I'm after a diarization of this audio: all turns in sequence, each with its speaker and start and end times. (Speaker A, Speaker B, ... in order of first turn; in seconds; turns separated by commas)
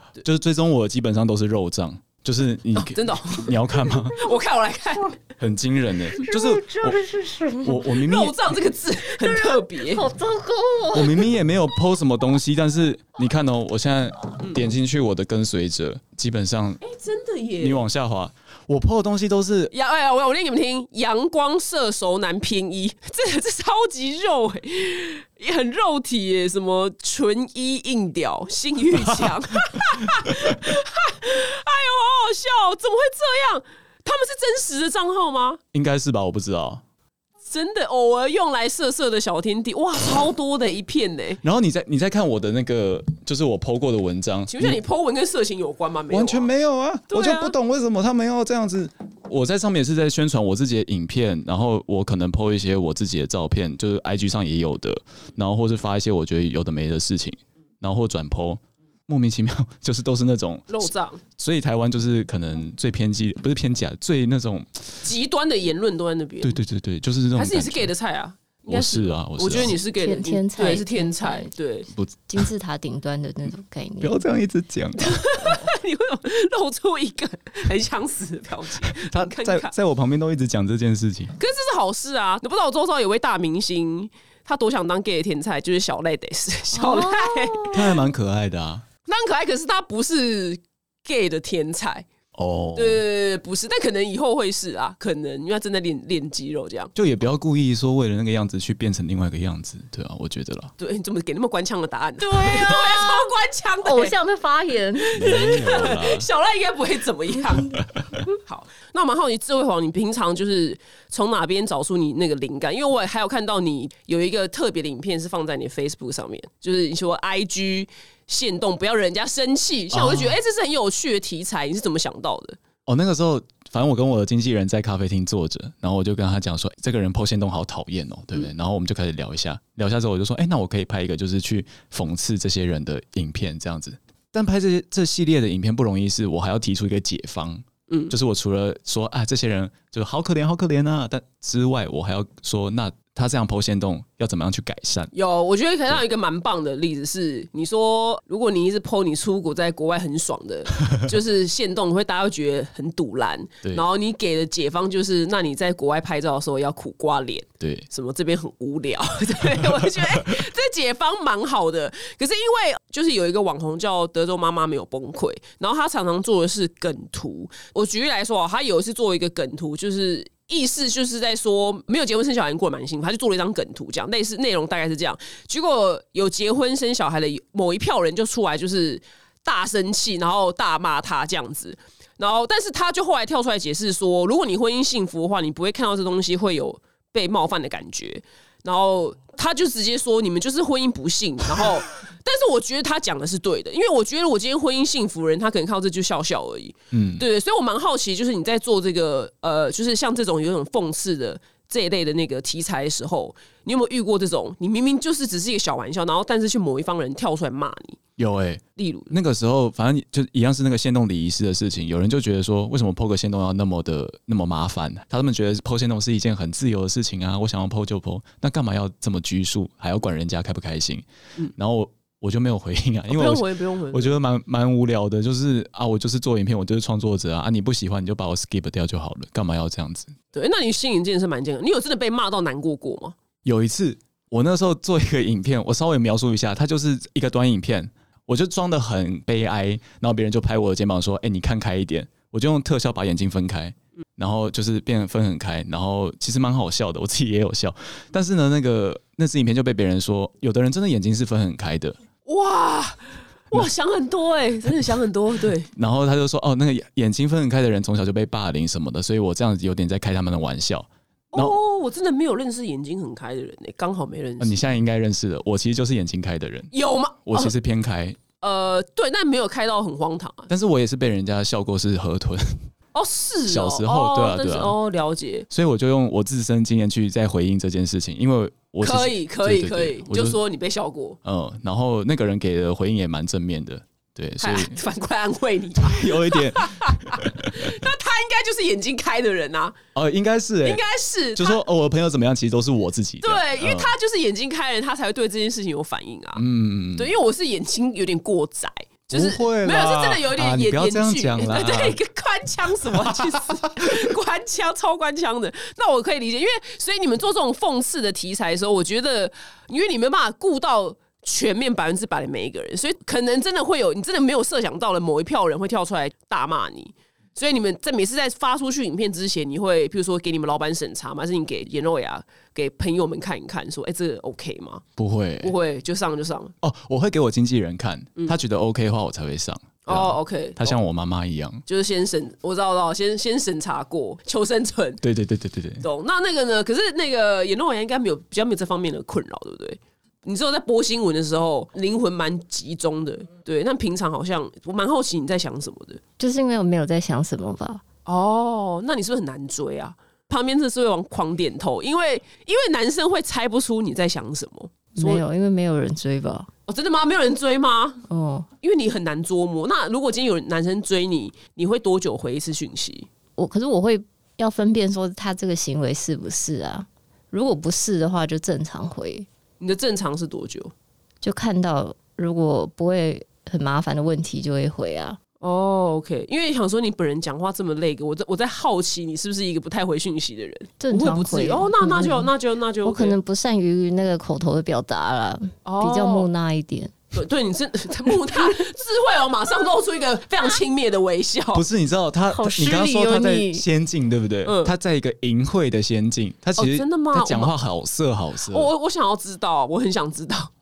Speaker A: 0.2-4.2, Speaker B: 2.8-5.2, Speaker A: 5.4-7.0, Speaker C: 6.2-7.9, Speaker A: 7.6-8.5, Speaker B: 8.0-10.1, Speaker C: 9.1-11.3, Speaker A: 10.9-16.8, Speaker B: 16.8-17.8, Speaker A: 17.6-19.7, Speaker B: 19.7-35.6, Speaker A: 35.7-36.8, Speaker B: 37.5-41.4, Speaker A: 41.4-44.8, Speaker B: 44.5-46.5, Speaker A: 46.1-65.0, Speaker B: 47.1-47.5, Speaker B: 60.7-61.2, Speaker B: 65.0-66.6, Speaker A: 66.4-67.9, Speaker B: 67.4-71.9, Speaker A: 68.7-69.7, Speaker C: 70.0-71.5, Speaker C: 72.3-74.1, Speaker A: 74.0-75.7, Speaker B: 75.0-79.7, Speaker A: 78.8-81.3, Speaker B: 81.4-87.8, Speaker C: 86.7-87.9, Speaker A: 87.7-88.8, Speaker B: 89.1-92.1, Speaker A: 92.3-93.0, Speaker B: 92.8-96.9, Speaker A: 97.0-100.7, Speaker B: 100.8-104.1, Speaker C: 102.2-103.3, Speaker C: 103.8-105.8, Speaker B: 105.0-122.6, Speaker A: 105.1-106.3, Speaker A: 119.9-120.4, Speaker A: 122.9-145.1, Speaker B: 137.9-138.1, Speaker B: 145.1-208.0, Speaker A: 157.6-157.9, Speaker A: 196.9-197.2, Speaker A: 208.2-221.1, Speaker B: 208.8-209.1, Speaker A: 221.6-230.2, Speaker B: 223.1-224.2, Speaker B: 230.3-233.2, Speaker A: 233.4-252.0, Speaker B: 252.3-255.7, Speaker A: 255.7-261.6, Speaker B: 261.3-264.6, Speaker A: 264.4-266.7, Speaker B: 266.7-267.5, Speaker A: 267.3-268.2, Speaker B: 268.4-270.5, Speaker A: 270.5-272.7, Speaker B: 272.9-275.5, Speaker A: 273.5-274.8, Speaker A: 275.5-280.4, Speaker B: 278.8-281.2, Speaker A: 281.2-284.8, Speaker B: 284.4-289.8, Speaker A: 285.8-287.8, Speaker A: 289.9-290.8, Speaker B: 290.6-291.6, Speaker A: 291.4-293.9, Speaker B: 293.2-296.4, Speaker A: 296.4-297.1, Speaker B: 297.0-324.8, Speaker A: 299.1-302.0, Speaker A: 302.9-304.0, Speaker A: 325.0-325.5, Speaker B: 325.4-326.5, Speaker A: 326.6-331.6, Speaker B: 329.9-330.8, Speaker B: 331.7-335.0, Speaker A: 335.0-335.9, Speaker B: 335.8-346.0, Speaker C: 346.2-347.8, Speaker B: 348.1-355.2, Speaker C: 354.9-356.5, Speaker B: 356.7-358.0, Speaker C: 358.1-358.5, Speaker B: 358.6-363.1, Speaker C: 363.4-369.3, Speaker B: 369.6-370.7, Speaker C: 371.2-375.2, Speaker B: 375.4-383.2, Speaker C: 380.8-382.3, Speaker C: 382.8-386.9, Speaker B: 385.6-386.3, Speaker B: 387.1-391.7, Speaker A: 391.5-398.7, Speaker C: 392.3-393.6, Speaker B: 394.4-394.7, Speaker B: 396.6-397.5, Speaker B: 398.5-400.5